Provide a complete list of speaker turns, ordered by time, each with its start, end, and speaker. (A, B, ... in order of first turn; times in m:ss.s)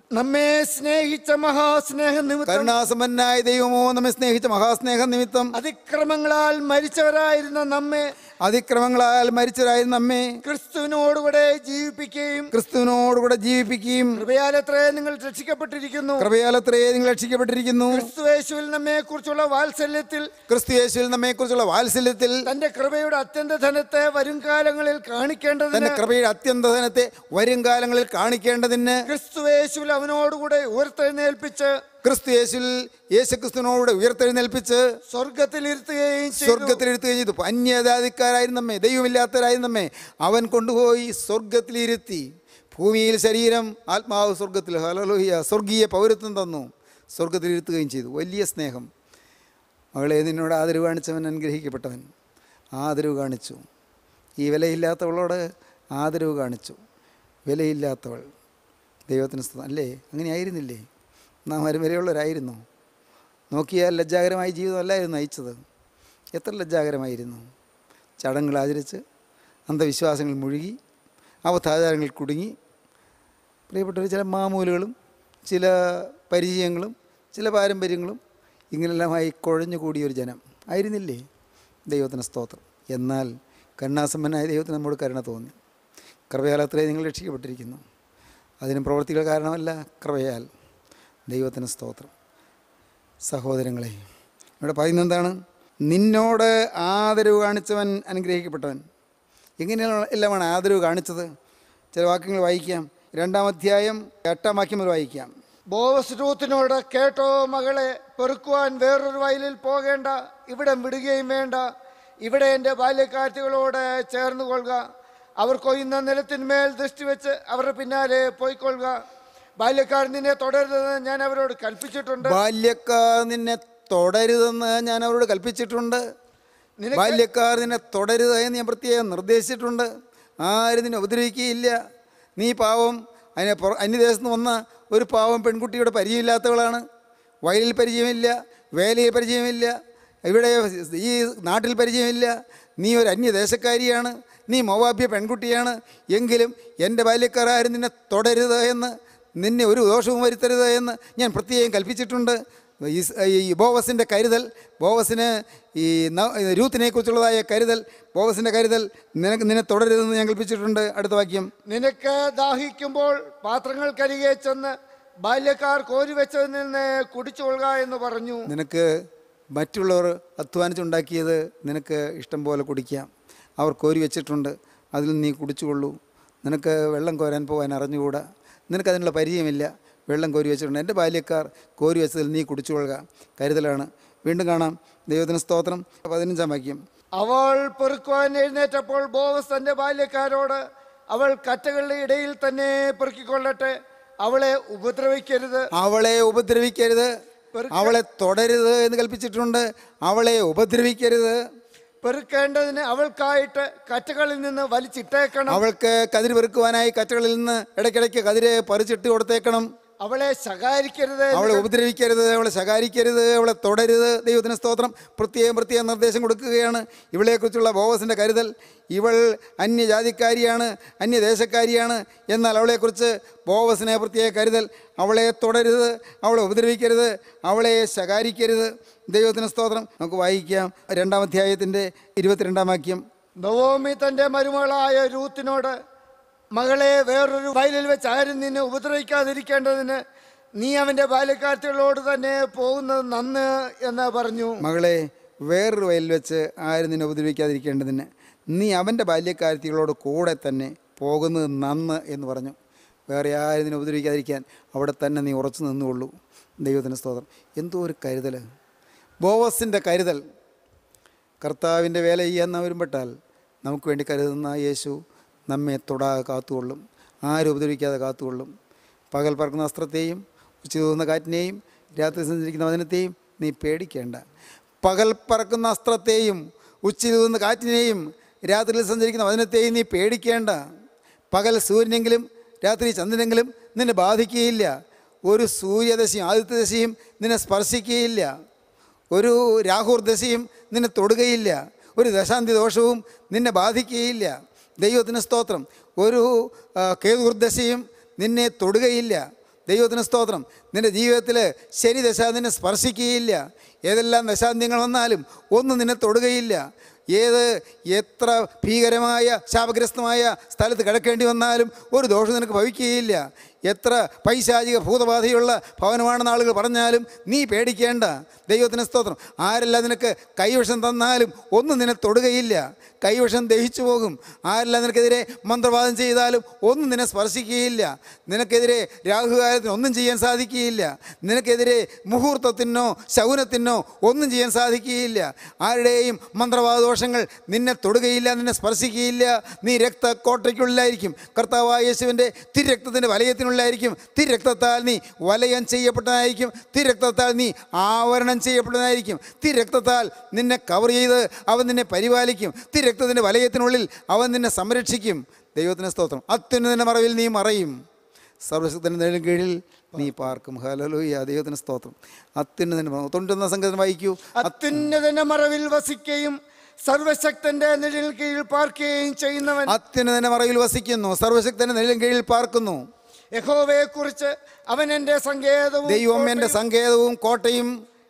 0:00.2-0:02.7 A
0:02.5-0:05.6 B
0:05.6-0:08.1 A
0:08.4-0:10.4 B
0:10.4-0:12.5 A
0:12.5-0:14.2 B
0:14.2-0:16.3 A
0:16.2-0:18.1 B
0:17.9-0:20.3 A
0:20.5-0:22.5 B
0:22.5-0:26.0 A
0:25.7-0:29.0 B
0:29.1-0:31.7 A
0:32.0-0:34.8 B
0:35.1-0:36.8 A
0:36.4-0:48.9 B
0:49.9-0:52.1 B
0:52.8-0:53.6 B
0:54.4-0:55.4 B
0:56.0-0:56.8 B
0:57.5-0:58.3 B
0:59.1-1:00.8 B
1:01.5-1:02.6 B
1:03.5-1:05.6 B
1:06.4-1:07.4 B
1:08.2-1:09.0 B
1:09.7-1:10.8 B
1:11.5-1:12.5 B
1:13.7-1:14.9 B
1:15.5-1:18.2 B
1:18.7-1:21.2 B
1:21.9-1:25.6 B
1:26.3-1:27.8 B
1:28.6-1:30.5 B
1:31.3-1:32.1 B
1:33.3-1:34.0 B
1:34.6-1:35.4 B
1:35.9-1:38.8 B
1:39.6-1:41.3 B
1:41.9-1:45.3 B
1:45.7-1:51.6 A
1:52.2-1:54.8 A
1:55.4-1:59.0 A
1:59.6-2:02.4 A
2:02.2-2:06.0 B
2:06.8-2:07.2 A
2:06.9-2:09.9 B
2:10.4-2:11.8 B
2:12.4-2:16.8 B
2:17.5-2:19.8 B
2:20.3-2:41.5 B
2:41.7-2:44.7 A
2:45.2-2:48.5 A
2:48.5-2:48.9 B
2:49.6-3:06.8 B
3:07.2-3:15.7 A
3:15.8-3:17.1 B
3:17.6-3:18.0 A
3:17.7-3:21.4 B
3:22.0-3:25.6 A
3:25.5-3:29.7 B
3:30.0-3:31.7 A
3:31.3-3:53.0 B
3:53.4-3:55.8 A
3:56.6-4:00.0 A
4:00.6-4:04.6 A
4:04.6-4:12.6 B
4:13.1-4:18.4 B
4:19.2-4:20.2 B
4:21.4-4:23.1 B
4:23.6-4:28.5 B
4:29.1-4:34.2 B
4:34.8-4:40.6 B
4:41.3-4:44.7 B
4:45.3-4:48.3 B
4:49.1-5:06.6 B
5:07.2-5:57.8 B
5:58.4-6:04.5 B
6:04.4-6:09.8 A
6:09.7-6:12.8 B
6:13.4-6:16.6 A
6:15.9-6:17.7 B